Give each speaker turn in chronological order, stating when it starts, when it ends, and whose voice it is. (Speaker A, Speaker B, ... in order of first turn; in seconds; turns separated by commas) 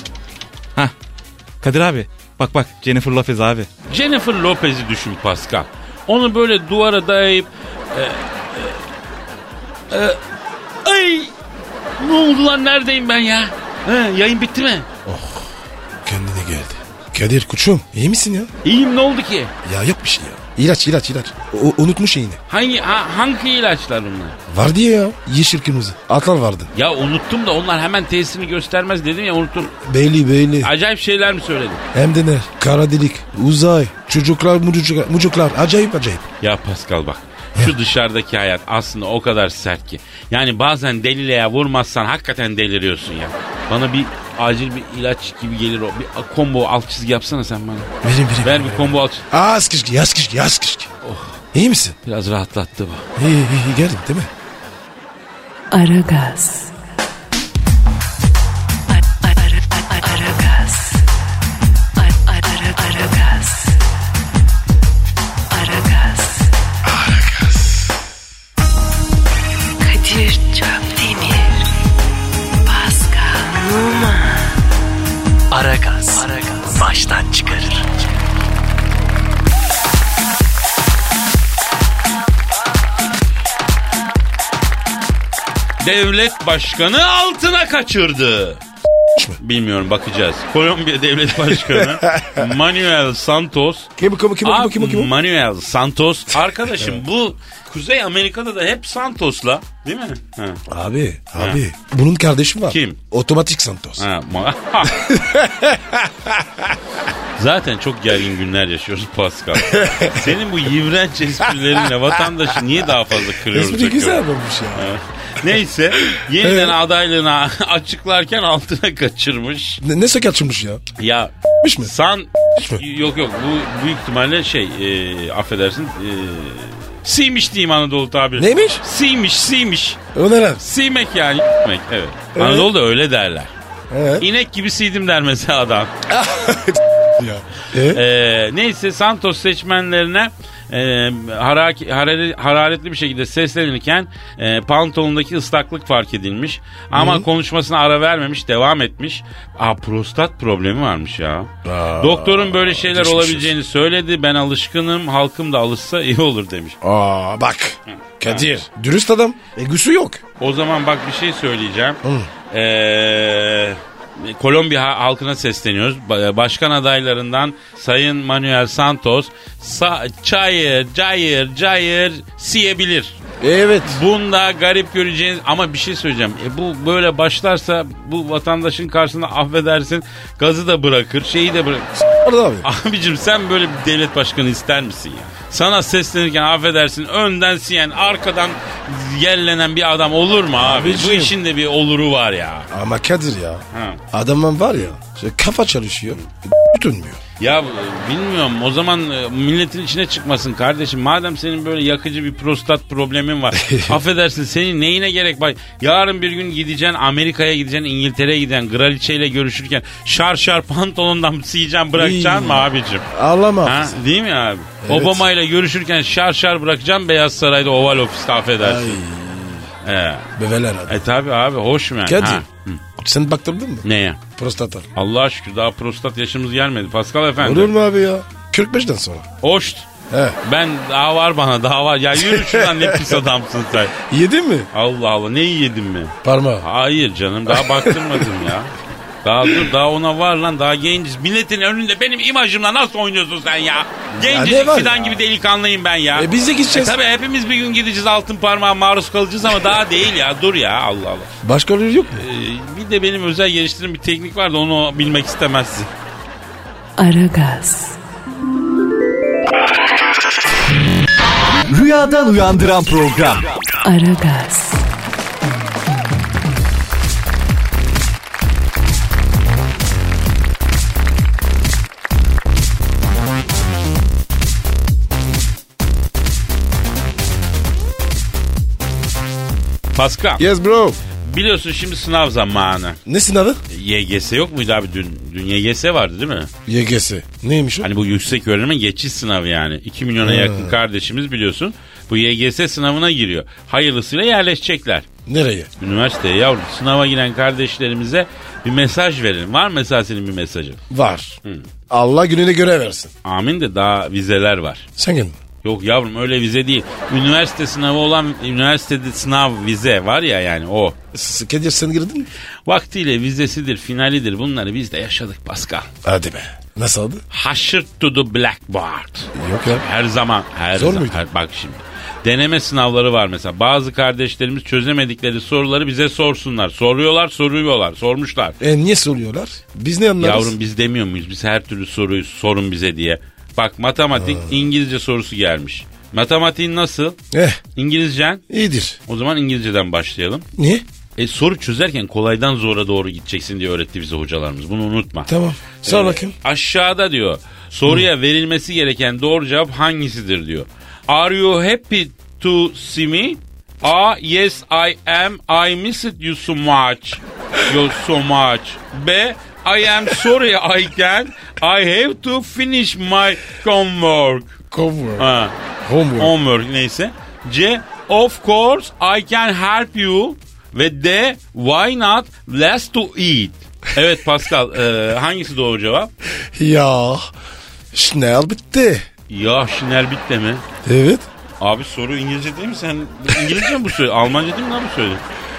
Speaker A: 1.6-3.7, Speaker B: 3.9-8.8, Speaker B: 9.9-10.2, Speaker B: 10.8-11.3, Speaker B: 12.0-14.9, Speaker C: 15.1-15.5, Speaker C: 16.1-18.5, Speaker B: 18.6-19.5, Speaker C: 19.6-22.4, Speaker B: 22.5-24.4, Speaker C: 24.5-26.7, Speaker B: 26.7-29.8, Speaker C: 29.8-30.7, Speaker B: 30.6-31.8, Speaker C: 31.9-36.3, Speaker B: 36.4-49.3, Speaker C: 48.0-50.9, Speaker B: 51.0-51.4, Speaker C: 51.5-52.0, Speaker B: 52.0-53.1, Speaker C: 53.2-54.3, Speaker D: 55.7-56.8, Speaker D: 58.9-61.1, Speaker D: 62.0-63.8, Speaker D: 65.5-66.5, Speaker C: 66.9-67.8, Speaker D: 69.8-71.7, Speaker D: 72.7-74.6, Speaker E: 75.5-77.8, Speaker D: 75.5-77.5, Speaker B: 85.8-88.6, Speaker B: 89.4-93.9, Speaker C: 91.5-92.5, Speaker C: 94.0-95.1, Speaker B: 94.4-100.6, Speaker C: 100.7-104.1, Speaker B: 102.7-103.0, Speaker B: 104.0-105.1, Speaker C: 104.8-106.8, Speaker B: 107.4-119.8, Speaker C: 109.5-110.3, Speaker C: 113.5-114.9, Speaker C: 116.0-116.8, Speaker C: 119.8-120.8, Speaker B: 121.0-130.0, Speaker C: 121.6-121.9, Speaker C: 128.4-128.8, Speaker C: 130.1-130.6, Speaker B: 130.6-133.5, Speaker C: 132.3-132.7, Speaker C: 133.9-134.3, Speaker B: 134.2-135.9, Speaker C: 136.1-138.0, Speaker B: 137.9-156.8, Speaker C: 146.9-147.3, Speaker C: 151.7-153.5, Speaker C: 156.8-160.2, Speaker B: 157.9-158.5, Speaker B: 160.4-162.0, Speaker C: 162.0-162.3, Speaker B: 162.5-173.2, Speaker C: 173.4-174.0, Speaker B: 173.8-181.9, Speaker C: 182.0-182.7, Speaker B: 182.6-192.7, Speaker C: 190.6-191.3, Speaker C: 192.7-197.2, Speaker B: 193.7-194.0, Speaker B: 197.4-213.1, Speaker C: 203.5-204.0, Speaker C: 211.9-214.0, Speaker B: 213.6-219.0, Speaker C: 214.8-215.2, Speaker C: 218.6-219.7, Speaker B: 219.8-220.3, Speaker C: 220.4-221.1, Speaker B: 220.9-222.8, Speaker C: 222.1-222.4, Speaker C: 223.0-223.9, Speaker B: 223.8-224.2, Speaker C: 224.4-224.9, Speaker B: 224.9-227.7, Speaker C: 227.4-229.3, Speaker B: 229.4-229.9, Speaker C: 230.1-230.4, Speaker B: 230.4-233.9, Speaker C: 232.2-233.2, Speaker C: 233.9-234.7, Speaker B: 234.7-251.3, Speaker C: 236.2-236.7, Speaker C: 237.5-238.3, Speaker C: 244.2-245.2, Speaker C: 246.2-247.0, Speaker C: 251.4-252.2, Speaker B: 252.1-255.9, Speaker D: 257.0-258.0, Speaker E: 261.7-263.5, Speaker D: 263.8-264.9, Speaker B: 279.9-280.5, Speaker C: 280.4-281.0, Speaker B: 281.2-283.0, Speaker C: 283.1-283.6, Speaker B: 283.7-286.5, Speaker C: 286.7-287.9, Speaker B: 287.8-295.1, Speaker C: 290.2-290.8, Speaker C: 295.3-295.7, Speaker B: 295.8-300.8, Speaker C: 300.9-301.4, Speaker C: 301.9-303.1, Speaker B: 303.2-304.9, Speaker C: 305.0-305.4, Speaker B: 305.6-311.0, Speaker C: 311.1-312.3, Speaker B: 312.7-315.9, Speaker C: 316.0-317.2, Speaker B: 317.3-328.6, Speaker C: 319.4-319.9, Speaker C: 320.7-321.2, Speaker C: 328.6-330.5, Speaker B: 330.2-337.2, Speaker C: 334.1-334.5, Speaker C: 337.3-337.6, Speaker B: 337.8-338.4, Speaker C: 338.5-339.0, Speaker B: 339.1-340.4, Speaker C: 340.6-340.9, Speaker B: 341.2-345.3, Speaker C: 345.3-346.4, Speaker B: 345.8-364.6, Speaker C: 364.7-365.3, Speaker B: 365.2-365.6, Speaker C: 365.8-366.4, Speaker B: 366.2-376.1, Speaker C: 376.6-377.3, Speaker C: 377.9-379.1, Speaker B: 379.3-380.6, Speaker C: 380.8-381.3, Speaker B: 381.6-385.2